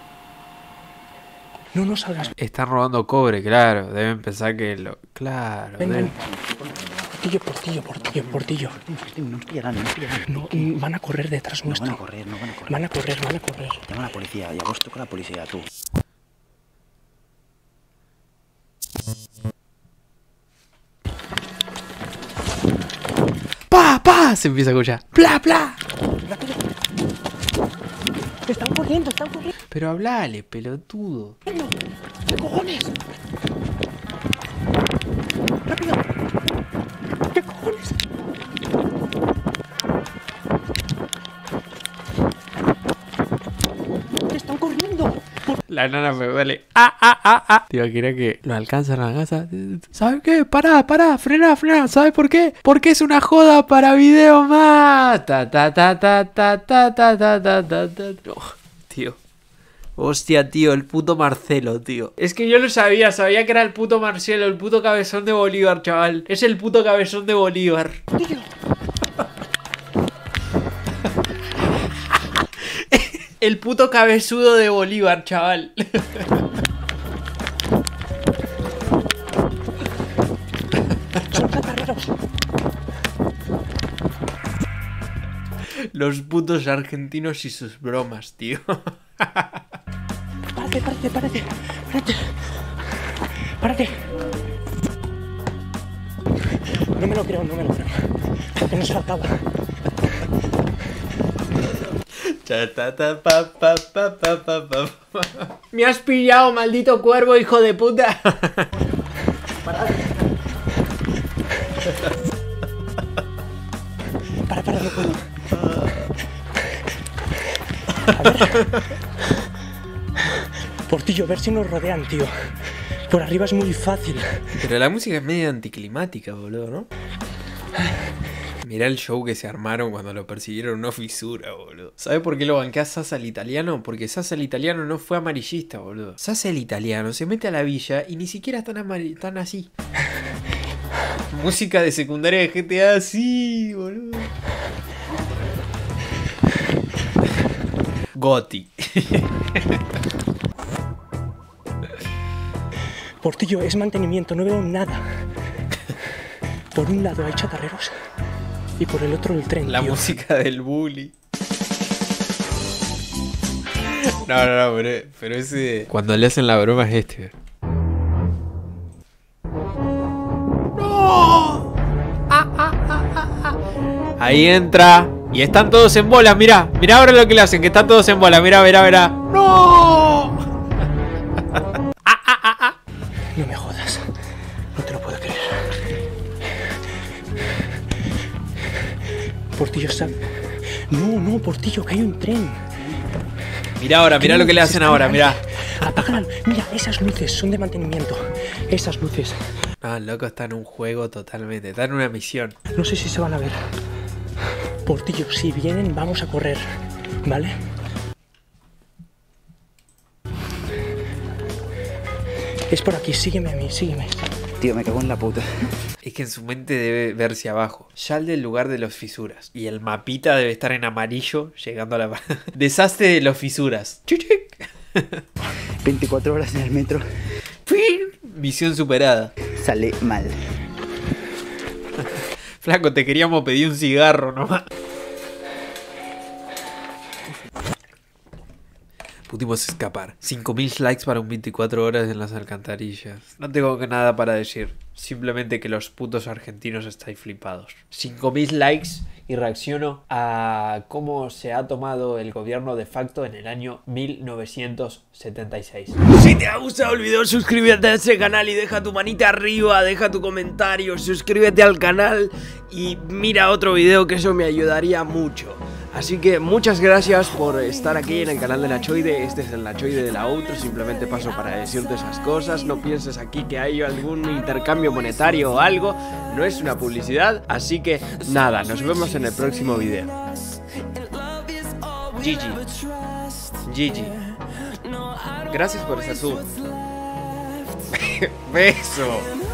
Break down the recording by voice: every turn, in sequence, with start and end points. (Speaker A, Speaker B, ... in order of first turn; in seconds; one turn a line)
Speaker A: 1.7-2.3
Speaker B: 2.4-6.1
Speaker A: 5.8-6.1
Speaker C: 6.0-7.1
Speaker A: 7.1-8.8
Speaker C: 8.0-10.7
Speaker A: 10.3-12.0
Speaker C: 11.7-12.8
Speaker A: 12.7-13.8
Speaker C: 13.9-15.7
Speaker B: 23.7-25.8
Speaker A: 26.2-26.6
Speaker A: 28.4-29.5
Speaker B: 29.7-31.4
Speaker A: 31.4-31.7
Speaker A: 32.3-33.0
Speaker A: 35.7-36.2
Speaker A: 37.3-38.0
Speaker A: 44.3-45.5
Speaker B: 45.7-59.2
Speaker B: 60.0-68.2
Speaker B: 72.6-76.4
Speaker A: 81.3-82.2
Speaker B: 85.9-89.5
Speaker A: 90.5-92.3
Speaker A: 93.6-94.0
Speaker A: 96.8-99.5
Speaker B: 102.1-108.7
Speaker A: 114.5-115.3
Speaker B: 115.5-116.0
Speaker A: 118.1-118.7
Speaker A: 120.8-122.3
Speaker A: 123.0-124.4
Speaker B: 124.6-126.9
Speaker B: 128.6-139.7
Speaker B: 141.3-144.3
Speaker B: 148.1-149.8
Speaker A: 153.2-155.2
Speaker A: 156.7-157.9
Speaker A: 158.8-160.1
Speaker B: 159.7-161.1
Speaker B: 164.0-167.3
Speaker B: 170.8-171.7
Speaker B: 172.3-173.6
Speaker B: 174.2-180.4
Speaker B: 182.0-182.8
Speaker A: 183.3-184.0
Speaker A: 184.7-185.8
Speaker A: 189.5-190.2
Speaker A: 190.9-192.7
Speaker B: 193.8-196.1
Speaker A: 194.2-199.4
Speaker B: 199.8-202.6
Speaker A: 202.7-203.6
Speaker A: 204.8-206.6
Speaker A: 207.2-207.5
Speaker A: 212.7-214.2
Speaker C: 214.6-215.7
Speaker B: 216.0-225.2
Speaker C: 225.8-227.0
Speaker B: 227.7-229.3
Speaker C: 229.5-230.5
Speaker B: 232.0-234.7
Speaker B: 239.3-256.0
Speaker D: 256.1-280.1
Speaker B: 282.2-282.6
Speaker B: 283.6-284.1
Speaker B: 285.5-286.4
Speaker B: 287.9-289.3